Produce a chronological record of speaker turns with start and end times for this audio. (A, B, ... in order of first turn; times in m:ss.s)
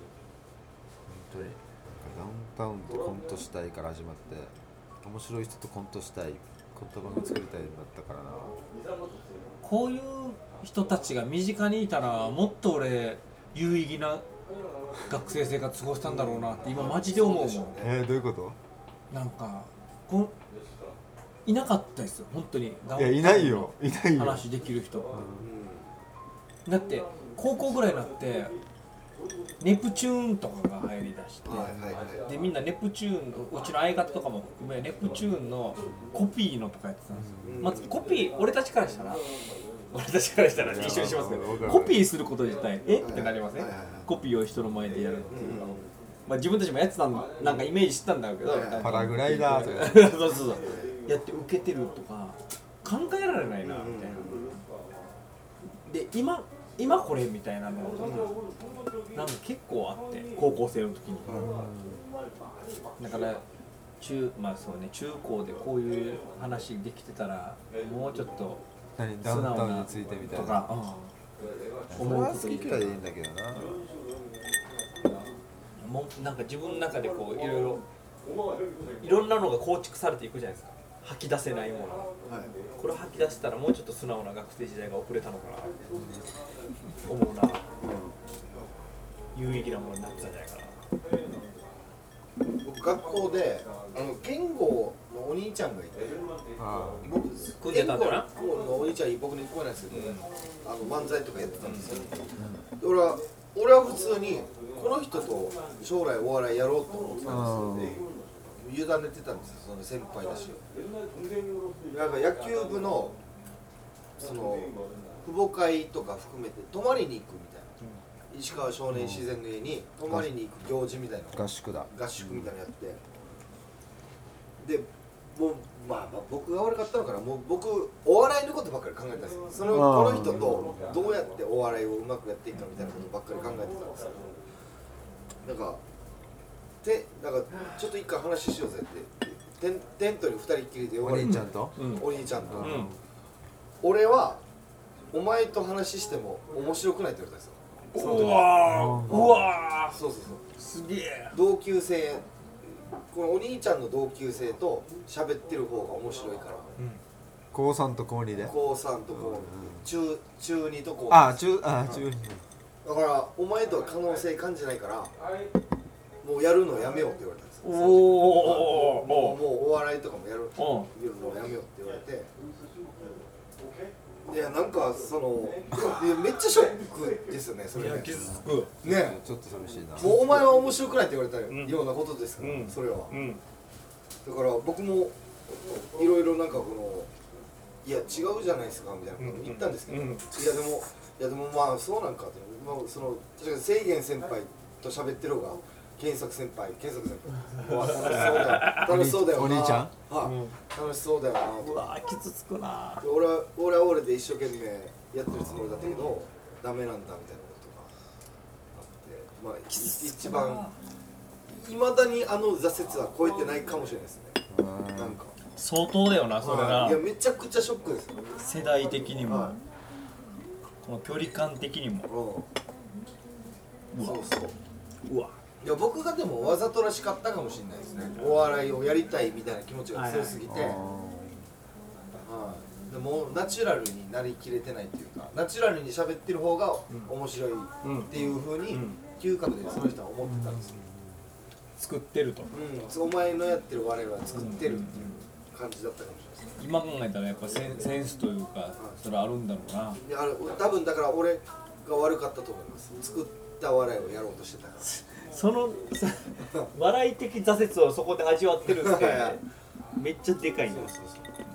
0:01.0-0:08.5 A
0:09.6-0:14.2 B
0:15.1-0:17.7 B
0:16.4-0:17.9 C
0:17.8-0:18.6 A
0:19.1-0:20.3 B
0:21.4-0:25.1 B
0:23.0-0:24.4 A
0:25.1-0:25.4 A
0:25.4-0:25.9 C
0:26.6-0:28.5 B
0:29.6-0:39.2 B
0:31.4-0:32.3 C
0:31.5-0:32.0 A
0:37.1-0:37.7 A
0:37.4-0:38.0 C
0:39.9-0:45.7 B
0:40.6-0:42.0 A
0:43.0-0:44.1 C
0:45.3-0:45.9 C
0:46.2-0:54.5 B
0:48.4-0:49.0 C
0:48.7-0:50.1 A
0:50.4-0:50.9 C
0:53.6-0:54.5 C
0:55.8-0:58.3 B
0:58.0-0:58.3 C
0:59.1-1:01.4 B
1:01.2-1:01.6 C
1:01.3-1:02.0 A
1:03.0-1:03.4 B
1:04.0-1:08.6 B
1:09.0-1:10.6 A
1:09.2-1:11.1 B
1:11.9-1:13.9 A
1:11.9-1:12.9 B
1:15.8-1:17.8 B
1:19.0-1:22.1 B
1:22.2-1:22.5 C
1:22.8-1:25.7 B
1:25.9-1:26.3 A
1:27.0-1:27.6 B
1:27.8-1:28.1 C
1:29.3-1:30.8 B
1:32.6-1:36.1 C
1:36.6-1:37.1 A
1:37.0-1:47.9 C
1:37.6-1:38.3 B
1:39.9-1:40.2 B
1:41.6-1:42.1 B
1:42.4-1:42.6 A
1:47.2-1:48.0 A
1:48.6-1:50.6 C
1:51.9-1:53.2 C
1:54.2-1:57.7 C
1:58.3-2:03.0 C
1:58.9-1:59.3 A
2:01.3-2:02.5 A
2:04.6-2:14.3 C
2:09.6-2:10.8 A
2:15.4-2:15.8 C
2:16.8-2:22.9 C
2:21.0-2:21.8 A
2:21.8-2:22.0 B
2:22.4-2:22.9 A
2:22.6-2:22.9 B
2:23.8-2:24.4 C
2:25.1-2:28.5 C
2:27.9-2:30.0 B
2:28.6-2:29.4 A
2:29.1-2:30.4 C
2:30.6-2:31.4 B
2:31.3-2:36.7 C
2:37.5-2:38.5 A
2:38.4-2:42.0 C
2:39.1-2:39.8 A
2:41.1-2:42.4 A
2:42.8-2:45.1 C
2:46.2-2:52.3 C
2:47.6-2:49.4 B
2:50.6-2:50.9 B
2:54.2-2:58.2 C
2:57.7-2:58.7 B
2:58.1-3:00.4 A
2:58.8-2:59.2 C
3:00.0-3:03.1 C
3:01.5-3:01.8 B
3:02.4-3:03.4 B
3:04.2-3:05.2 C
3:05.9-3:07.1 C
3:07.8-3:21.9 C
3:09.2-3:10.3 B
3:17.6-3:18.9 B
3:18.3-3:19.9 A
3:20.2-3:20.6 B
3:21.5-3:23.0 B
3:23.0-3:27.9 C
3:25.2-3:25.9 A
3:28.7-3:30.6 C
3:29.7-3:30.8 B
3:31.5-3:34.4 C
3:34.5-3:35.2 A
3:34.9-3:35.3 C
3:35.6-3:37.0 B
3:36.4-3:38.2 C
3:38.3-3:39.6 B
3:39.2-3:39.6 C
3:40.8-3:42.1 B
3:42.1-3:42.5 C
3:43.9-3:44.3 B
3:44.0-3:44.6 C
3:45.0-3:45.4 B
3:45.6-3:50.8 C
3:48.2-3:48.4 B
3:49.9-3:50.4 B
3:50.4-3:51.4 A
3:52.2-4:00.8 C
3:57.8-3:59.0 B
4:00.2-4:01.2 A
4:01.8-4:02.5 B
4:02.5-4:06.6 C
4:04.3-4:05.2 B
4:06.6-4:10.0 B
4:10.0-4:14.9 C
4:14.8-4:19.4 B
4:18.7-4:19.4 C
4:20.0-4:20.9 B
4:20.7-4:21.2 C